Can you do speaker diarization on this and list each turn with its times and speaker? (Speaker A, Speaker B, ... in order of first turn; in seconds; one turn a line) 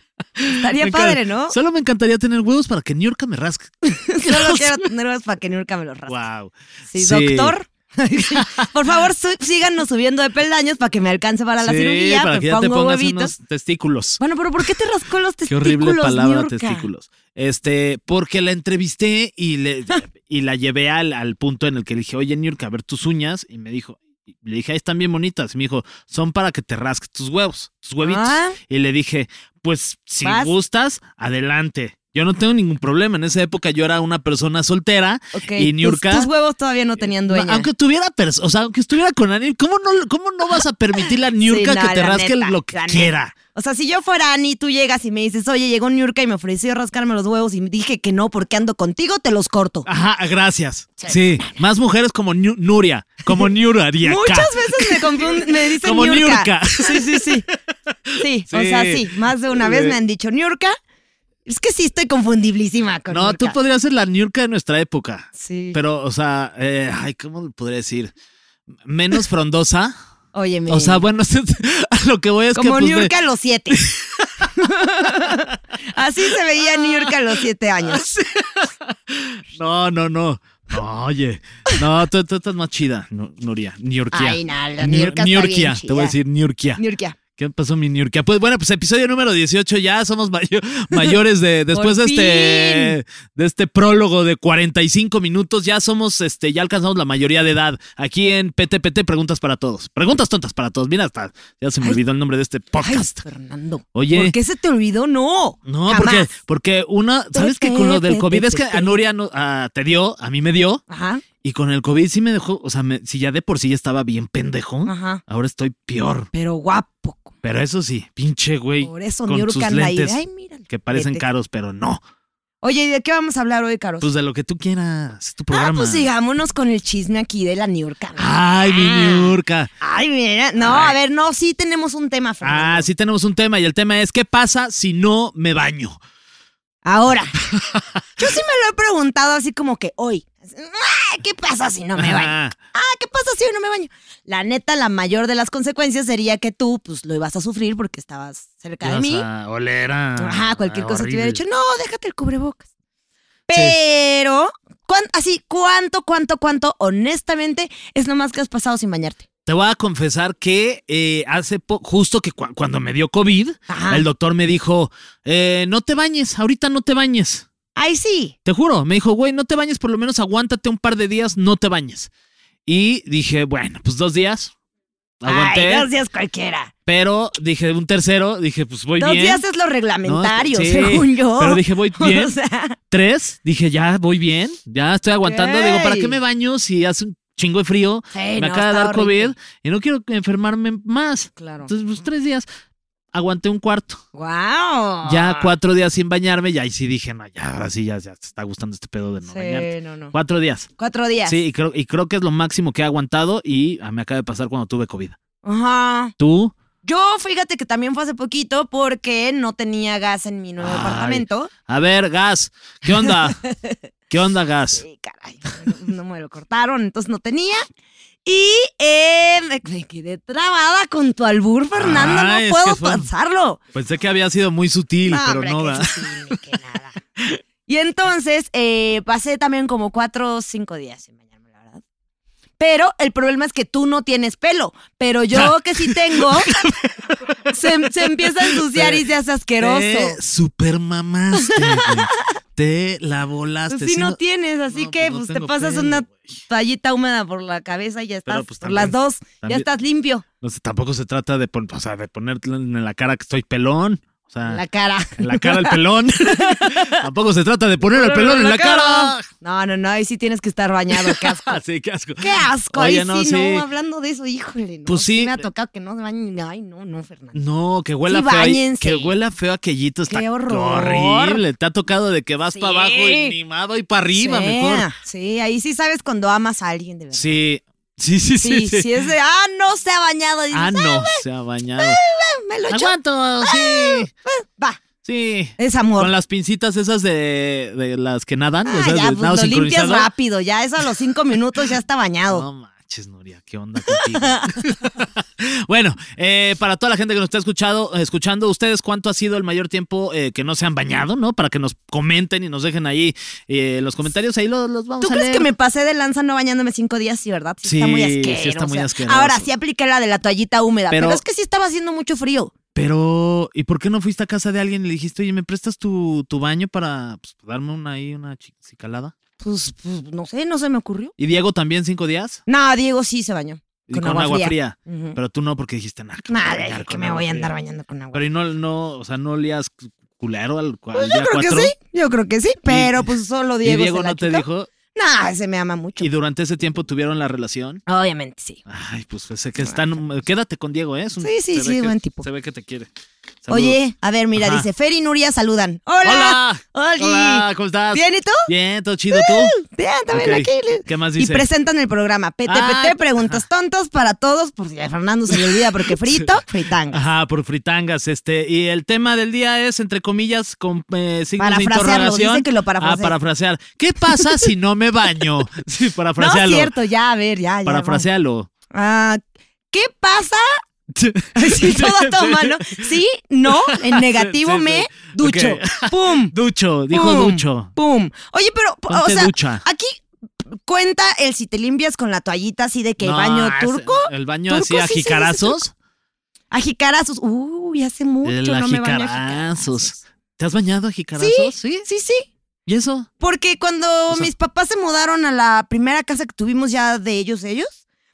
Speaker A: 0.4-4.8
Speaker B: 0.6-1.6
Speaker B: 3.9-6.2
Speaker A: 6.1-7.5
Speaker B: 6.9-13.3
Speaker A: 8.3-8.7
Speaker A: 11.6-14.2
Speaker B: 14.2-16.9
Speaker A: 15.5-36.3
Speaker B: 28.0-28.6
Speaker B: 30.2-30.5
Speaker B: 35.4-37.7
Speaker A: 37.0-43.3
Speaker B: 41.0-49.9
Speaker A: 49.9-60.0
Speaker B: 51.0-51.6
Speaker B: 54.0-57.5
Speaker B: 58.2-60.8
Speaker B: 61.5-63.6
Speaker A: 63.1-68.1
Speaker B: 65.4-65.8
Speaker A: 68.8-70.0
Speaker B: 70.3-71.0
Speaker A: 70.7-73.1
Speaker B: 72.5-73.9
Speaker A: 73.7-74.5
Speaker B: 74.6-78.1
Speaker A: 76.6-77.3
Speaker A: 77.8-86.8
Speaker B: 84.1-86.2
Speaker B: 86.8-87.2
Speaker A: 87.4-103.2
Speaker B: 91.7-93.0
Speaker B: 102.8-106.3
Speaker A: 104.0-104.3
Speaker A: 105.7-110.8
Speaker B: 107.3-109.0
Speaker B: 110.9-111.2
Speaker A: 111.4-116.3
Speaker B: 114.8-115.2
Speaker B: 116.3-117.3
Speaker A: 117.4-122.0
Speaker B: 118.8-121.2
Speaker B: 122.6-124.1
Speaker A: 124.0-126.1
Speaker B: 125.5-132.9
Speaker A: 128.2-129.7
Speaker A: 130.6-131.0
Speaker A: 132.4-136.0
Speaker B: 136.8-137.4
Speaker A: 137.5-138.0
Speaker B: 138.2-149.3
Speaker A: 142.0-142.6
Speaker A: 148.8-151.4
Speaker B: 150.2-152.6
Speaker B: 153.5-159.2
Speaker A: 153.5-153.8
Speaker A: 159.5-167.5
Speaker B: 163.7-164.1
Speaker B: 167.8-168.3
Speaker A: 168.4-172.1
Speaker A: 172.7-174.5
Speaker A: 175.2-175.9
Speaker B: 175.3-176.7
Speaker A: 176.9-179.4
Speaker B: 179.0-182.8
Speaker A: 180.1-182.3
Speaker A: 182.9-192.5
Speaker B: 185.2-186.2
Speaker B: 188.1-189.3
Speaker B: 191.4-191.7
Speaker A: 193.1-194.0
Speaker B: 194.1-195.5
Speaker A: 195.1-200.7
Speaker B: 199.2-200.1
Speaker B: 200.8-201.4
Speaker A: 201.3-205.2
Speaker B: 205.4-206.2
Speaker A: 206.2-206.6
Speaker B: 206.8-211.5
Speaker A: 210.6-213.4
Speaker B: 213.0-213.8
Speaker A: 214.1-214.8
Speaker B: 214.8-217.7
Speaker B: 218.2-223.6
Speaker A: 221.8-223.1
Speaker A: 223.7-226.4
Speaker B: 225.1-227.0
Speaker B: 227.7-231.8
Speaker B: 232.6-236.5
Speaker A: 235.3-239.1
Speaker B: 237.5-240.2
Speaker A: 239.6-244.2
Speaker B: 241.4-242.2
Speaker B: 243.7-250.2
Speaker A: 244.7-246.3
Speaker A: 248.3-249.7
Speaker A: 250.4-254.6
Speaker B: 254.5-257.0
Speaker A: 255.2-259.3
Speaker B: 257.9-261.6
Speaker A: 260.9-263.7
Speaker B: 262.2-267.4
Speaker A: 264.9-265.5
Speaker A: 267.3-274.9
Speaker B: 268.1-269.1
Speaker B: 270.1-271.4
Speaker B: 272.5-273.4
Speaker B: 274.1-277.4
Speaker A: 277.1-279.1
Speaker B: 278.4-281.2
Speaker A: 280.5-282.0
Speaker B: 281.8-284.8
Speaker A: 282.7-284.1
Speaker A: 285.0-290.1
Speaker B: 285.6-286.1
Speaker B: 288.7-292.5
Speaker A: 292.3-305.5
Speaker B: 293.9-294.6
Speaker B: 305.0-312.5
Speaker A: 307.6-309.5
Speaker A: 310.9-311.2
Speaker A: 312.8-319.1
Speaker B: 319.4-321.1
Speaker A: 321.2-322.4
Speaker B: 322.5-325.2
Speaker A: 323.9-327.5
Speaker B: 326.3-328.2
Speaker A: 328.1-331.8
Speaker B: 330.9-336.1
Speaker A: 332.7-334.7
Speaker A: 336.0-337.8
Speaker B: 337.9-338.6
Speaker A: 338.7-342.9
Speaker B: 341.2-342.3
Speaker A: 343.4-343.8
Speaker B: 343.5-348.5
Speaker A: 344.4-344.7
Speaker A: 346.0-349.6
Speaker B: 349.1-357.0
Speaker A: 350.1-351.4
Speaker A: 352.5-353.4
Speaker A: 355.3-356.3
Speaker A: 356.9-366.7
Speaker B: 361.4-363.1
Speaker B: 364.2-364.4
Speaker B: 366.2-368.1
Speaker A: 367.6-368.5
Speaker B: 368.7-369.2
Speaker B: 369.7-370.5
Speaker A: 370.9-372.9
Speaker B: 371.4-376.3
Speaker A: 373.5-377.7
Speaker B: 376.9-385.6
Speaker A: 378.9-379.6
Speaker A: 383.0-385.7
Speaker B: 386.5-390.0
Speaker A: 388.2-391.9
Speaker B: 391.2-392.3
Speaker A: 392.7-393.1
Speaker B: 393.2-397.8